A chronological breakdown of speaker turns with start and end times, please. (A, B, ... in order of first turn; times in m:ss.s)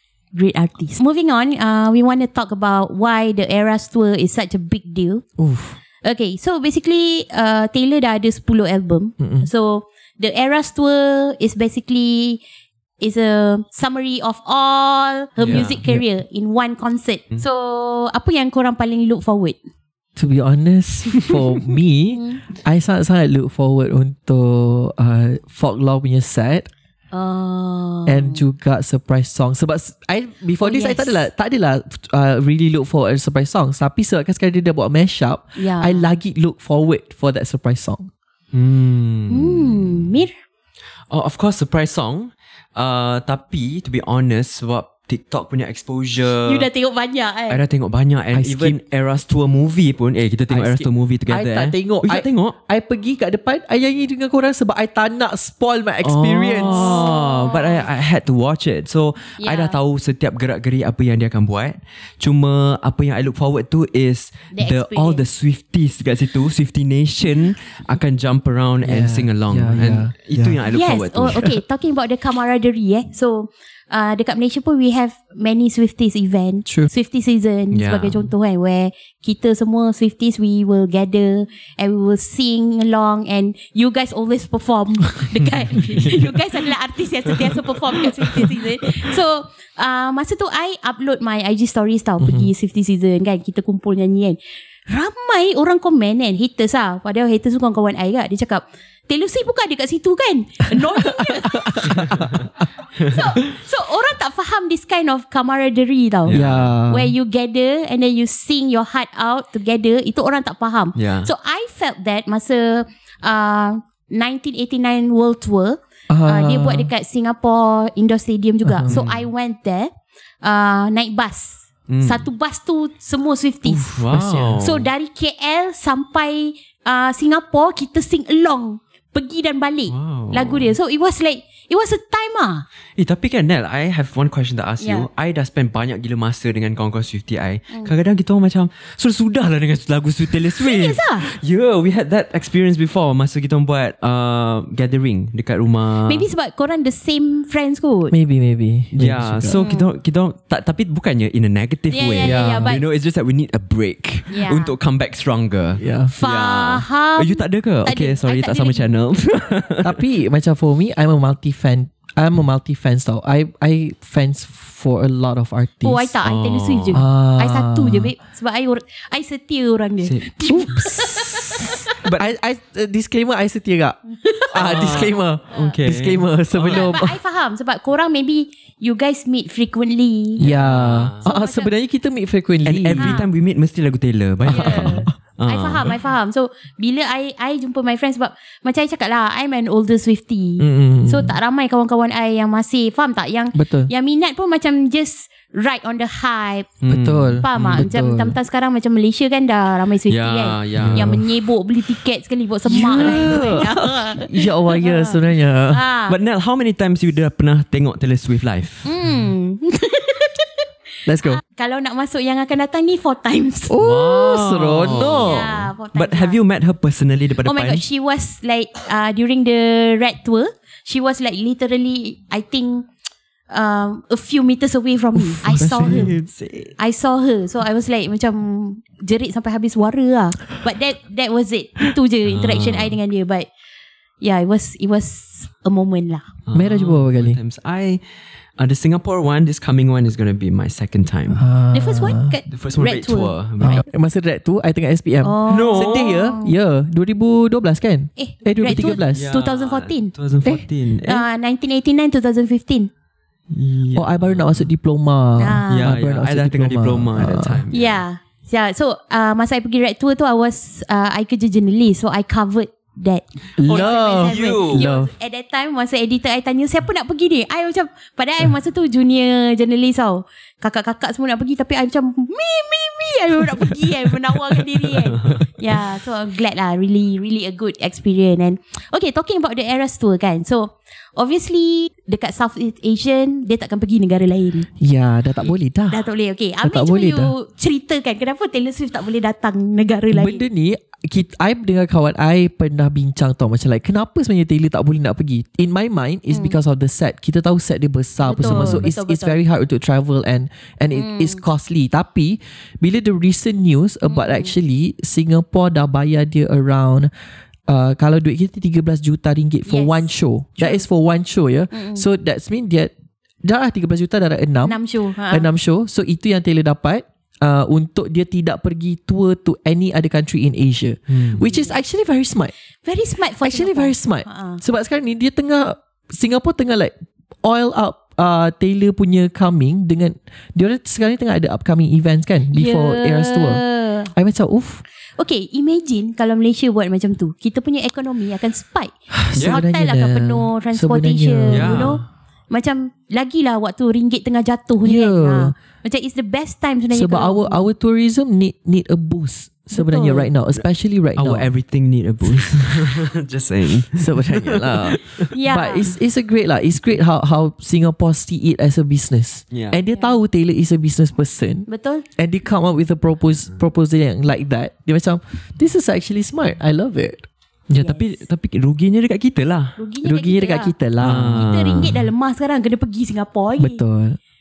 0:00.3-0:05.2 A
0:05.4-0:05.8 B
0:06.0-0:12.4 A
0:09.2-0:09.5 B
0:13.0-0:19.6 A
0:15.4-0:15.7 C
0:15.4-0:16.0 B
0:20.2-0:26.7 B
0:22.1-0:22.4 A
0:27.1-0:28.4 A
0:28.0-0:38.1 B
0:30.6-0:31.3 A
0:35.6-0:36.1 A
0:38.5-0:40.0 C
0:39.3-0:40.3 A
0:41.1-0:46.7 C
0:46.4-0:47.6 A
0:47.5-0:52.6 C
0:48.3-0:48.8 B
0:50.5-0:57.1 B
0:56.0-1:11.5 C
0:56.6-0:57.8 A
0:59.4-0:59.8 A
1:04.5-1:05.2 A
1:08.8-1:10.6 B
1:10.7-1:41.9 A
1:17.7-1:18.3 C
1:32.2-1:32.5 B
1:41.6-1:42.4 B
1:41.9-1:42.3 C
1:43.0-1:59.9 A
1:46.3-1:46.7 C
1:46.3-1:47.1 B
1:51.0-1:51.3 C
1:56.1-1:56.9 B
1:58.6-1:59.0 B
1:58.9-1:59.3 C
2:00.4-2:03.9 A
2:01.9-2:02.2 C
2:03.7-2:04.6 B
2:03.8-2:04.9 C
2:04.6-2:12.6 A
2:09.9-2:10.7 C
2:13.0-2:26.3 C
2:14.8-2:15.1 A
2:20.6-2:21.3 A
2:26.1-2:28.1 A
2:28.1-2:29.6 B
2:28.9-2:40.0 C
2:29.5-2:29.9 A
2:31.9-2:32.8 A
2:32.2-2:32.8 B
2:34.3-2:34.7 A
2:35.8-2:36.1 B
2:36.1-2:38.8 A
2:39.8-2:46.1 B
2:45.8-2:51.8 A
2:46.2-2:47.0 C
2:46.9-2:48.1 B
2:50.0-2:50.3 C
2:50.5-2:57.2 B
2:52.0-2:52.3 C
2:54.5-2:56.8 C
2:55.5-2:55.8 A
2:56.7-3:00.4 A
3:00.4-3:03.2 B
3:00.4-3:01.2 C
3:01.2-3:01.7 A
3:02.6-3:06.0 C
3:03.0-3:03.2 A
3:04.4-3:05.1 B
3:04.5-3:16.7 A
3:10.6-3:11.3 B
3:13.5-3:13.9 B
3:16.8-3:17.9 C
3:16.9-3:18.4 B
3:17.4-3:26.2 A
3:20.1-3:21.3 C
3:20.7-3:21.2 B
3:22.6-3:25.8 B
3:23.0-3:23.3 C
3:26.1-3:28.9 C
3:28.8-3:30.6 A
3:31.0-3:31.4 B
3:31.2-3:33.7 A
3:33.7-3:35.5 B
3:33.8-3:37.8 C
3:35.2-3:36.4 A
3:37.4-3:42.9 A
3:43.5-3:46.1 A
3:45.2-3:46.2 B
3:45.4-3:46.7 C
3:46.8-3:53.5 A
3:52.2-3:53.0 C
3:54.2-3:56.3 A
3:56.4-3:58.0 C
3:56.5-3:57.4 B
3:58.6-4:01.4 C
4:01.3-4:02.3 B
4:01.7-4:03.8 A
4:02.5-4:03.8 C
4:03.6-4:09.3 B
4:05.2-4:06.5 A
4:05.5-4:06.2 C
4:08.2-4:10.1 A
4:09.1-4:11.2 C
4:11.0-4:12.9 A
4:13.5-4:14.7 C
4:13.9-4:17.6 B
4:15.4-4:15.9 A
4:15.7-4:18.0 C
4:17.7-4:44.7 A
4:23.6-4:25.1 B
4:23.6-4:24.9 C
4:44.8-4:46.0 B
4:45.9-4:50.4 A
4:46.6-4:47.3 B
4:50.1-5:07.1 B
4:58.2-4:59.4 A
4:58.4-4:58.8 C
5:00.9-5:01.4 A
5:04.1-5:04.5 A
5:07.7-5:22.5 B
5:09.7-5:10.8 A
5:11.7-5:12.0 A
5:14.6-5:15.5 A
5:21.1-5:21.4 C
5:21.4-5:21.8 A
5:22.8-5:24.6 A
5:23.4-5:34.8 B
5:32.5-5:34.1 A
5:35.2-5:47.6 A
5:39.1-5:42.0 B
5:41.5-5:42.0 C
5:44.8-5:45.5 B
5:46.9-5:51.5 B
5:49.7-5:50.3 A
5:51.2-5:55.2 C
5:53.9-6:07.3 B
5:55.3-5:55.9 A
5:59.5-5:59.8 C
5:59.9-6:00.2 A
6:01.7-6:02.0 A
6:07.7-6:09.8 C
6:07.7-6:08.2 A
6:09.8-6:10.7 A
6:10.0-6:11.8 B
6:11.0-6:12.0 C
6:11.3-6:13.8 A
6:13.6-6:14.2 B